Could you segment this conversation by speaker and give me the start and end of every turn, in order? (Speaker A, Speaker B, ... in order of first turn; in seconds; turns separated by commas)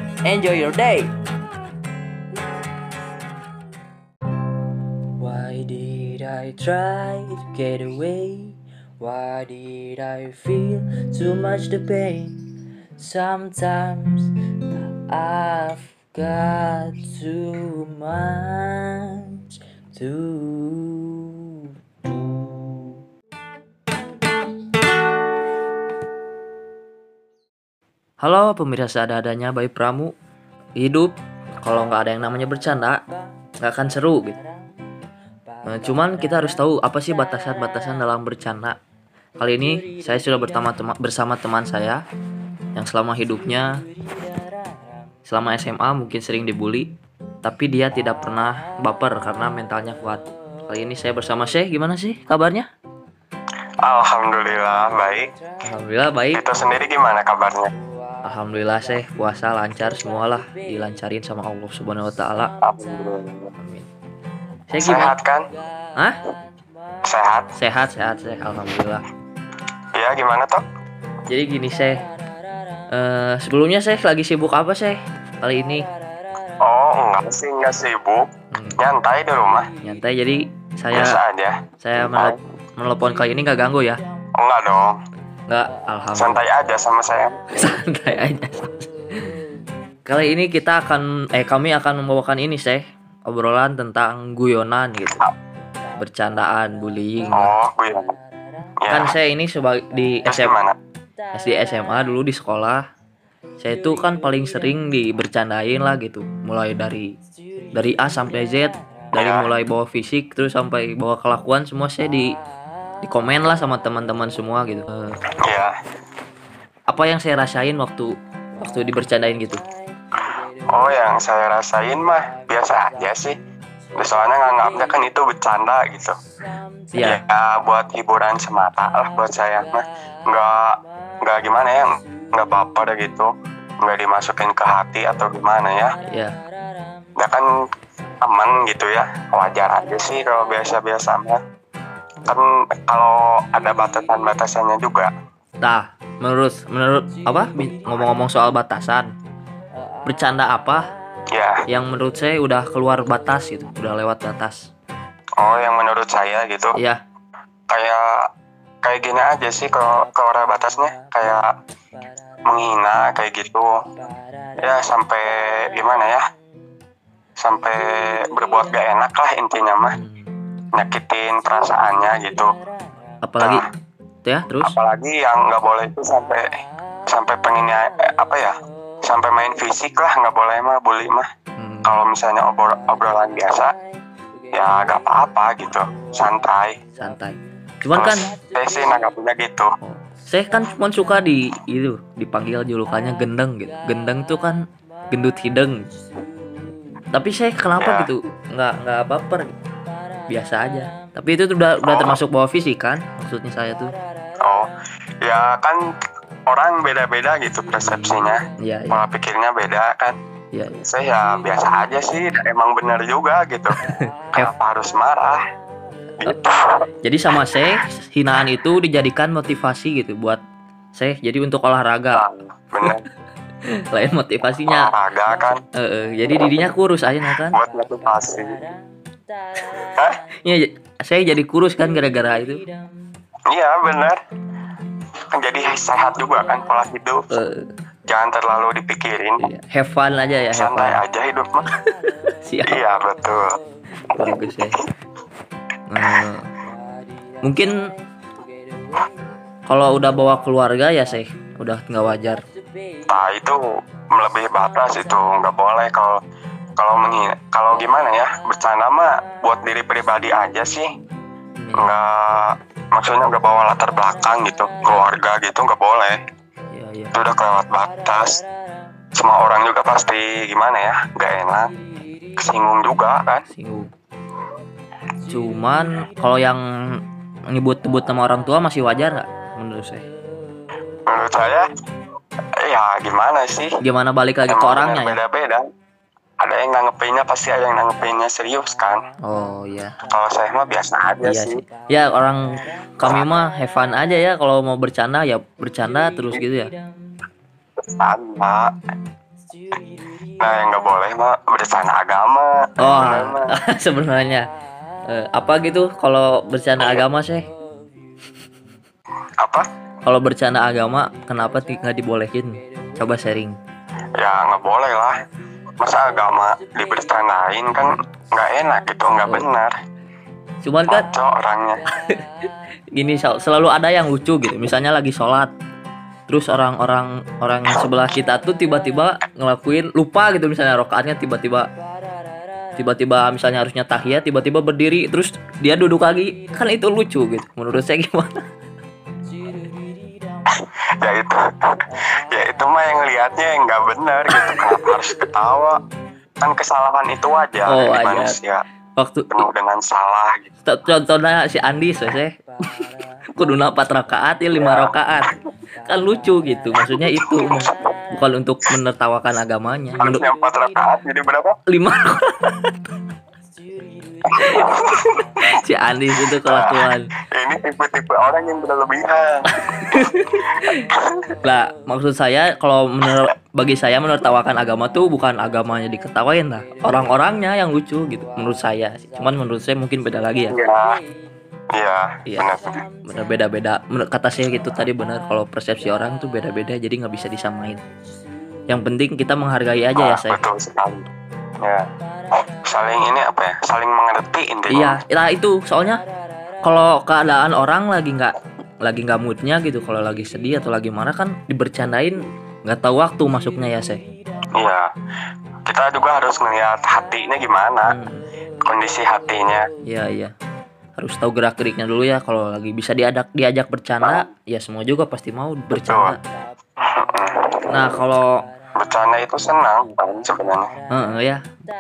Speaker A: 0.2-1.1, Speaker A: 5.2-12.5, Speaker A: 13.0-14.3, Speaker A: 15.1-19.4, Speaker A: 19.9-21.4, Speaker A: 22.0-23.0, Speaker A: 28.2-30.1, Speaker A: 30.8-33.0, Speaker A: 33.6-34.4, Speaker A: 35.6-38.8, Speaker A: 39.4-42.0, Speaker A: 42.8-43.8, Speaker A: 45.3-46.9, Speaker A: 47.4-52.7, Speaker B: 53.8-55.3, Speaker A: 55.6-56.4, Speaker B: 56.3-57.7, Speaker A: 58.2-62.5, Speaker B: 62.6-63.5, Speaker A: 63.6-63.9, Speaker A: 64.7-65.2, Speaker B: 64.8-65.5, Speaker B: 67.0-67.5, Speaker A: 67.6-69.0, Speaker B: 70.0-70.6, Speaker A: 71.3-72.0, Speaker A: 72.9-75.9, Speaker B: 76.6-78.3, Speaker A: 78.5-78.8, Speaker B: 78.8-79.7, Speaker A: 79.8-81.2, Speaker B: 80.9-82.4, Speaker A: 81.8-84.0, Speaker B: 84.4-85.0, Speaker A: 85.5-86.4, Speaker B: 86.2-87.4, Speaker A: 87.5-89.3, Speaker A: 90.1-95.3, Speaker A: 96.0-97.5, Speaker B: 97.3-98.2, Speaker B: 98.8-99.1, Speaker A: 98.9-100.6, Speaker B: 100.3-100.8, Speaker A: 101.3-102.8, Speaker A: 103.6-107.1, Speaker A: 107.8-112.3, Speaker B: 109.2-109.5, Speaker A: 113.0-115.2, Speaker B: 115.4-115.8, Speaker A: 116.9-119.6, Speaker B: 120.7-123.4, Speaker B: 124.0-126.2, Speaker A: 126.9-127.2, Speaker B: 127.0-133.3, Speaker B: 133.8-135.9, Speaker A: 136.1-136.3, Speaker B: 137.2-137.5, Speaker B: 138.2-141.4, Speaker B: 142.3-145.1, Speaker A: 145.6-149.1, Speaker A: 150.1-150.8, Speaker B: 151.3-151.6, Speaker A: 151.7-154.7, Speaker B: 155.4-156.7, Speaker A: 156.8-157.0, Speaker B: 157.7-158.3, Speaker B: 158.8-161.5, Speaker B: 162.4-163.7, Speaker B: 164.6-166.2, Speaker B: 167.4-169.9, Speaker A: 169.9-170.3, Speaker B: 170.8-172.5, Speaker A: 173.2-173.7, Speaker B: 173.4-173.7, Speaker A: 174.2-174.8, Speaker B: 174.6-176.4, Speaker B: 177.1-181.3, Speaker A: 181.6-181.9, Speaker B: 181.8-183.7, Speaker B: 184.5-186.8, Speaker A: 187.0-188.4, Speaker B: 187.9-189.7, Speaker A: 189.8-194.6, Speaker A: 195.1-195.9, Speaker A: 197.1-199.5, Speaker B: 197.8-198.1, Speaker A: 200.3-203.9, Speaker B: 201.8-202.2, Speaker B: 204.4-204.7, Speaker B: 205.2-205.8, Speaker B: 206.5-210.2, Speaker A: 207.8-209.0, Speaker A: 210.5-210.8, Speaker B: 210.8-213.8, Speaker A: 213.7-214.5, Speaker B: 214.3-215.4, Speaker B: 216.2-216.8, Speaker A: 217.0-220.4, Speaker A: 220.9-222.2, Speaker B: 222.2-223.0, Speaker A: 223.7-224.9, Speaker B: 224.7-225.6, Speaker A: 225.7-227.6, Speaker B: 227.5-228.6, Speaker A: 229.8-232.7, Speaker B: 233.5-234.2, Speaker B: 235.3-237.3, Speaker A: 237.3-237.7, Speaker B: 238.1-239.4, Speaker A: 239.4-241.0, Speaker B: 240.5-241.7, Speaker A: 242.4-242.8, Speaker B: 242.7-243.6, Speaker A: 244.1-244.8, Speaker B: 244.2-244.5, Speaker A: 245.9-246.5, Speaker A: 247.4-247.7, Speaker A: 249.7-252.4, Speaker B: 253.1-256.2, Speaker B: 256.8-260.9, Speaker A: 261.6-261.9, Speaker B: 261.8-266.2, Speaker A: 266.7-267.2, Speaker B: 267.1-268.4, Speaker B: 269.1-271.7, Speaker B: 272.4-273.4, Speaker A: 273.5-273.9, Speaker A: 275.3-280.1, Speaker B: 281.1-281.7, Speaker B: 282.6-283.7, Speaker A: 283.8-285.2, Speaker B: 284.5-285.6, Speaker B: 286.4-289.0, Speaker A: 289.2-290.0, Speaker B: 290.1-291.6, Speaker A: 291.2-292.4, Speaker A: 293.0-296.7, Speaker B: 297.8-298.7, Speaker B: 300.4-303.6, Speaker A: 302.8-304.5, Speaker A: 305.1-307.4, Speaker B: 309.4-309.6, Speaker A: 310.1-313.6, Speaker B: 314.2-315.2, Speaker B: 315.8-319.7, Speaker A: 319.2-319.5, Speaker A: 320.6-321.1, Speaker B: 320.9-321.8, Speaker A: 322.0-322.2, Speaker A: 322.9-325.5, Speaker A: 326.3-331.7, Speaker A: 332.8-338.3, Speaker B: 340.5-345.8, Speaker A: 344.3-345.2, Speaker B: 346.4-348.6, Speaker A: 347.7-348.4, Speaker A: 349.0-349.5, Speaker B: 349.3-350.5, Speaker A: 350.6-355.3, Speaker B: 354.6-354.9, Speaker A: 355.9-360.2, Speaker B: 356.9-357.8, Speaker B: 360.0-361.6, Speaker A: 361.7-362.8, Speaker B: 364.3-365.2, Speaker A: 364.3-367.1, Speaker B: 366.4-366.8, Speaker B: 367.3-369.4, Speaker A: 369.5-370.9, Speaker A: 371.4-380.6, Speaker B: 380.5-381.0, Speaker B: 381.8-382.8, Speaker A: 382.3-382.5, Speaker A: 383.1-387.8, Speaker A: 388.7-390.4, Speaker B: 390.0-391.1, Speaker B: 392.6-395.0, Speaker A: 394.7-396.0, Speaker A: 396.6-404.0, Speaker B: 404.5-404.9, Speaker B: 405.7-407.9, Speaker A: 407.9-408.2, Speaker B: 408.6-409.7, Speaker A: 409.9-410.3, Speaker A: 411.0-416.2, Speaker B: 415.7-416.2, Speaker B: 416.8-417.7, Speaker A: 417.7-418.3, Speaker B: 418.8-420.7, Speaker A: 420.9-421.4